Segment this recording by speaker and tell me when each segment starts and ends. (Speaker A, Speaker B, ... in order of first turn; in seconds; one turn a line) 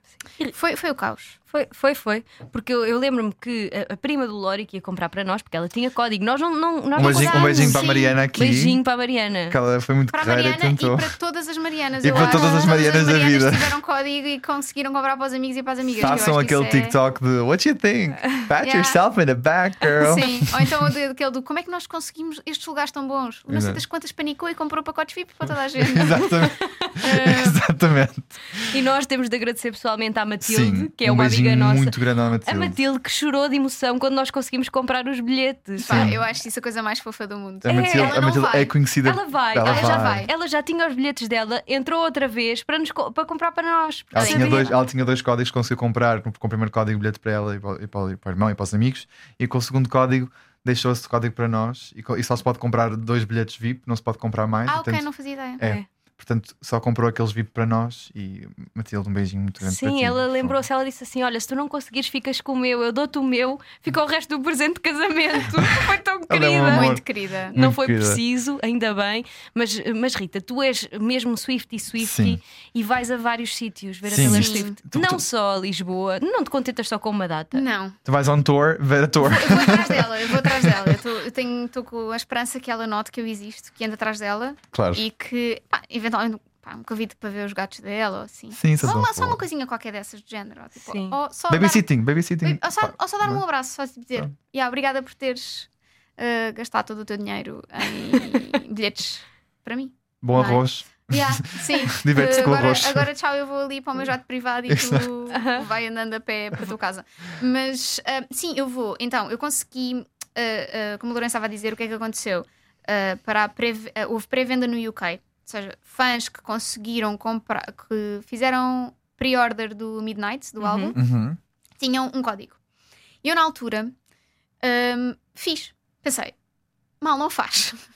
Speaker A: 0.5-1.4
Speaker B: 1.5-9.6
Speaker C: 7.0-8.8
Speaker A: 7.0-8.2
Speaker C: 9.5-11.2
Speaker A: 10.1-17.0
Speaker C: 12.0-13.7
Speaker B: 12.1-12.7
Speaker C: 15.9-20.7
Speaker A: 18.6-19.0
Speaker A: 20.0-26.4
Speaker C: 23.5-23.8
Speaker C: 25.8-28.6
Speaker A: 27.0-27.6
Speaker B: 28.6-36.1
Speaker C: 30.4-32.8
Speaker C: 35.8-36.2
Speaker A: 35.8-38.8
Speaker C: 37.6-40.3
Speaker B: 37.7-38.2
Speaker B: 39.0-44.7
Speaker A: 39.6-40.3
Speaker C: 44.1-55.1
Speaker A: 44.2-44.8
Speaker A: 54.7-55.6
Speaker C: 55.6-60.6
Speaker B: 55.6-55.9
Speaker B: 59.6-77.6
Speaker C: 65.6-67.0
Speaker A: 66.7-67.5
Speaker C: 67.5-68.2
Speaker C: 72.0-72.4
Speaker C: 74.1-75.2
Speaker A: 74.2-74.8
Speaker A: 77.5-78.0
Speaker C: 78.0-81.0
Speaker A: 79.3-91.9
Speaker B: 79.5-79.8
Speaker C: 84.7-85.0
Speaker C: 88.5-89.4
Speaker B: 90.8-91.2
Speaker C: 91.5-93.4
Speaker A: 92.4-121.0
Speaker C: 100.2-103.1
Speaker C: 104.7-105.1
Speaker B: 105.3-105.6
Speaker B: 120.6-121.0
Speaker C: 121.0-121.4
Speaker A: 121.8-122.6
Speaker A: 123.2-124.0
Speaker A: 124.6-126.3
Speaker A: 127.0-127.8